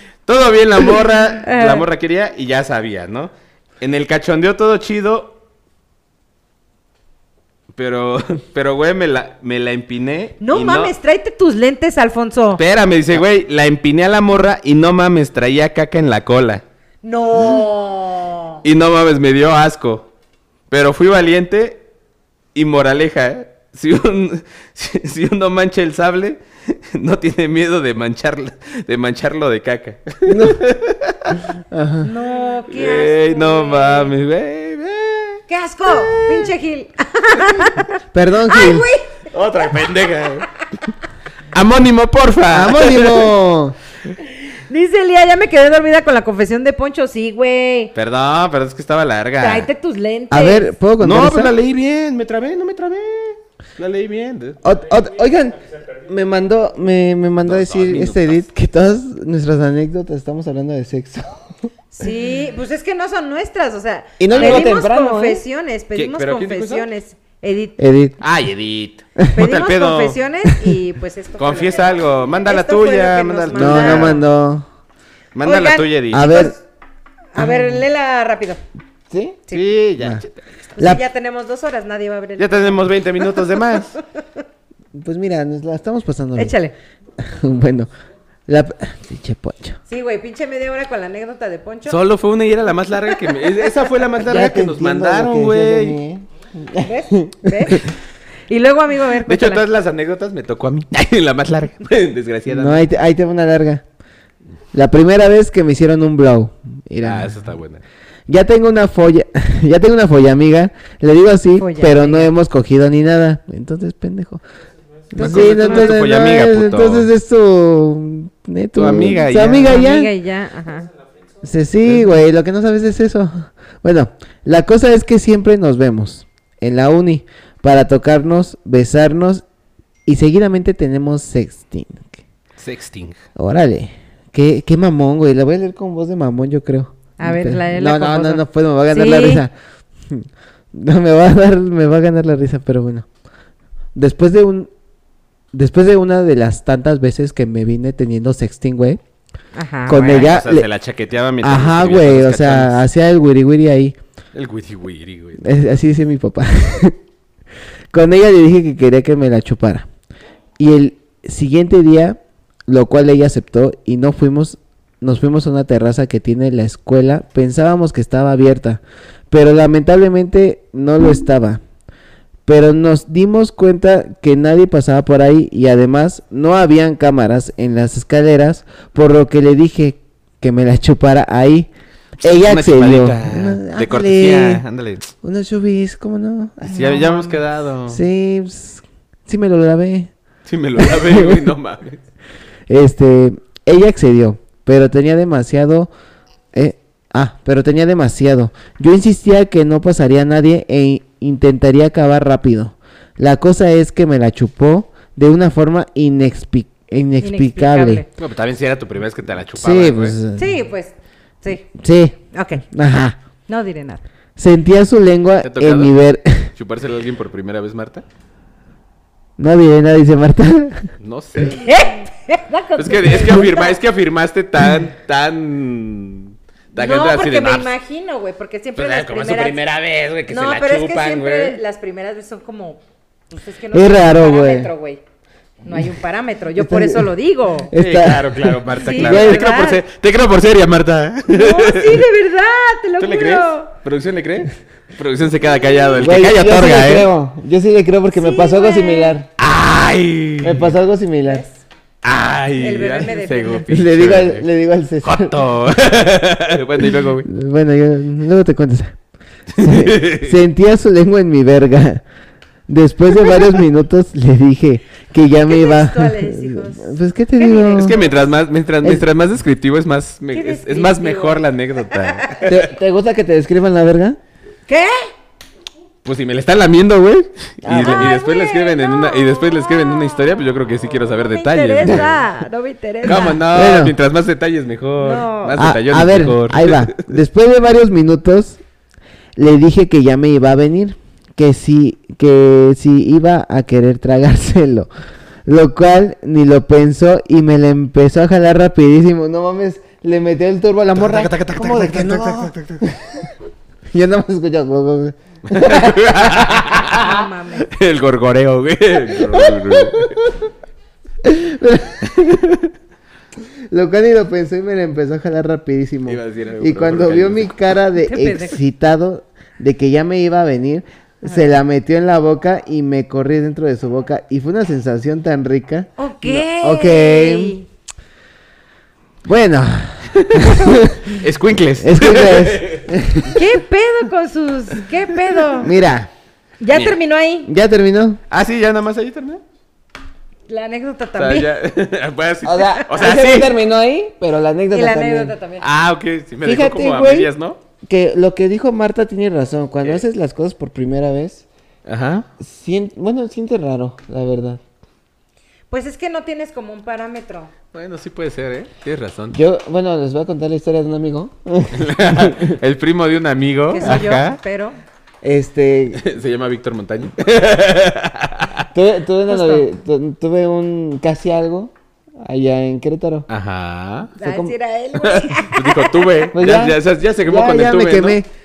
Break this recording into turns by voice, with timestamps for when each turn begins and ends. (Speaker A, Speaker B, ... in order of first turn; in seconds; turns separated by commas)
Speaker A: 0.2-5.4, Speaker B: 1.4-1.9, Speaker A: 7.7-10.9, Speaker B: 10.4-12.6, Speaker A: 12.6-16.6, Speaker B: 17.0-18.6, Speaker A: 18.6-20.1, Speaker A: 20.7-21.8, Speaker A: 22.5-31.4, Speaker C: 30.2-30.6, Speaker C: 31.6-32.1, Speaker B: 32.0-34.1, Speaker A: 32.7-35.4, Speaker B: 35.5-37.9, Speaker A: 35.9-36.4, Speaker C: 38.1-38.9, Speaker B: 38.5-39.2, Speaker A: 39.3-40.5, Speaker A: 41.5-43.3, Speaker C: 42.5-43.8, Speaker B: 44.5-47.9, Speaker A: 47.9-49.7, Speaker B: 49.4-50.7, Speaker C: 50.3-51.5, Speaker A: 51.0-54.6, Speaker C: 54.6-61.4, Speaker A: 57.4-58.4, Speaker B: 61.9-67.8, Speaker C: 64.2-65.4, Speaker A: 64.3-64.7, Speaker A: 65.9-66.8, Speaker C: 67.8-68.2, Speaker A: 68.2-70.2, Speaker B: 69.3-74.2, Speaker A: 71.4-74.2, Speaker C: 73.5-74.7, Speaker A: 75.3-76.4, Speaker B: 75.4-76.6, Speaker C: 76.1-76.5, Speaker B: 77.3-78.6, Speaker C: 77.4-77.8, Speaker C: 79.1-79.4, Speaker A: 79.5-80.3, Speaker B: 80.8-83.3, Speaker A: 82.4-84.0, Speaker C: 84.9-86.5, Speaker B: 86.3-86.7, Speaker C: 87.2-87.9, Speaker C: 88.5-89.8, Speaker B: 89.9-92.0, Speaker A: 91.9-96.0, Speaker C: 94.2-97.8, Speaker B: 96.8-97.9, Speaker B: 98.5-99.6, Speaker A: 99.2-102.8, Speaker C: 102.5-103.8, Speaker C: 104.7-107.4, Speaker A: 107.0-107.8, Speaker C: 108.3-114.4, Speaker B: 111.6-112.3, Speaker C: 115.1-120.1, Speaker A: 115.2-117.1, Speaker B: 115.2-115.9, Speaker A: 118.7-119.8, Speaker B: 119.6-120.9, Speaker C: 121.4-129.4, Speaker A: 121.8-122.2, Speaker C: 130.1-132.2, Speaker A: 132.6-133.2, Speaker C: 133.3-139.5, Speaker B: 137.2-139.4, Speaker C: 140.1-143.1, Speaker C: 143.9-144.7, Speaker C: 145.5-149.0, Speaker B: 149.5-150.3, Speaker C: 149.8-150.7, Speaker A: 149.9-152.8, Speaker C: 151.4-154.0, Speaker A: 154.3-155.4, Speaker C: 155.4-156.9, Speaker C: 157.9-159.9, Speaker C: 160.6-171.6, Speaker C: 172.4-184.6, Speaker A: 182.2-185.1, Speaker C: 185.2-190.1, Speaker A: 186.6-188.0, Speaker B: 186.8-187.1, Speaker A: 190.4-192.0, Speaker C: 190.8-191.5, Speaker C: 192.7-195.9, Speaker C: 196.5-208.0, Speaker B: 207.2-208.1, Speaker A: 208.2-210.2, Speaker C: 209.6-210.6, Speaker B: 210.3-211.7, Speaker C: 211.7-212.2, Speaker B: 212.3-212.6, Speaker C: 212.7-213.2, Speaker B: 213.5-214.0, Speaker C: 214.4-216.5, Speaker A: 215.4-215.9, Speaker A: 216.6-218.0, Speaker C: 219.4-220.9, Speaker A: 221.0-221.6, Speaker B: 221.5-223.8, Speaker A: 222.8-227.7, Speaker B: 226.8-229.6, Speaker A: 228.8-231.6, Speaker B: 230.3-235.0, Speaker C: 233.7-234.7, Speaker B: 235.6-237.7, Speaker C: 236.6-237.1, Speaker C: 237.7-239.4, Speaker A: 237.7-242.0, Speaker B: 238.8-239.8, Speaker B: 241.3-243.7, Speaker A: 243.0-247.1, Speaker C: 246.0-249.3, Speaker B: 248.2-249.2, Speaker A: 249.4-250.7, Speaker C: 250.4-251.4, Speaker B: 251.2-251.6, Speaker A: 252.0-254.4, Speaker B: 252.6-253.6, Speaker C: 253.7-255.3, Speaker A: 255.0-257.3, Speaker C: 257.2-258.9, Speaker A: 259.6-260.3, Speaker C: 259.6-262.0, Speaker C: 262.7-268.0, Speaker B: 265.4-268.3, Speaker A: 267.7-272.6, Speaker B: 270.3-272.4, Speaker C: 272.4-274.2, Speaker B: 274.7-275.1, Speaker A: 276.0-282.2, Speaker C: 277.6-278.2, Speaker B: 277.7-280.3, Speaker B: 281.3-283.4, Speaker A: 283.0-287.0, Speaker C: 283.1-283.9, Speaker B: 285.0-285.6, Speaker C: 285.6-288.6, Speaker C: 289.4-294.9, Speaker C: 295.4-303.3, Speaker A: 300.9-302.8, Speaker C: 303.9-306.8, Speaker A: 305.5-310.2, Speaker B: 306.8-307.7, Speaker C: 309.1-310.2, Speaker C: 311.2-312.4, Speaker A: 312.1-312.7, Speaker C: 313.7-327.6, Speaker A: 316.1-317.5, Speaker B: 318.0-318.6, Speaker B: 326.0-327.6, Speaker C: 329.2-331.1, Speaker A: 330.1-332.8, Speaker C: 331.8-333.4, Speaker B: 333.3-335.7, Speaker C: 335.6-336.1, Speaker B: 336.6-337.5, Speaker C: 337.4-338.2, Speaker A: 338.3-339.4, Speaker B: 340.5-341.5, Speaker A: 341.2-343.5, Speaker C: 342.4-345.3, Speaker B: 344.7-345.6, Speaker A: 345.6-347.6, Speaker C: 346.4-347.3, Speaker C: 347.8-351.4, Speaker A: 351.9-352.3, Speaker C: 352.4-354.6, Speaker B: 355.7-357.5, Speaker A: 357.7-359.4, Speaker C: 359.3-362.6, Speaker A: 361.7-364.4, Speaker B: 363.7-364.8, Speaker C: 365.2-366.0, Speaker A: 365.9-368.7, Speaker C: 368.7-373.3, Speaker B: 369.3-369.6, Speaker A: 373.3-374.1, Speaker B: 374.2-376.3, Speaker C: 374.2-374.5, Speaker A: 374.9-378.2, Speaker C: 376.3-378.3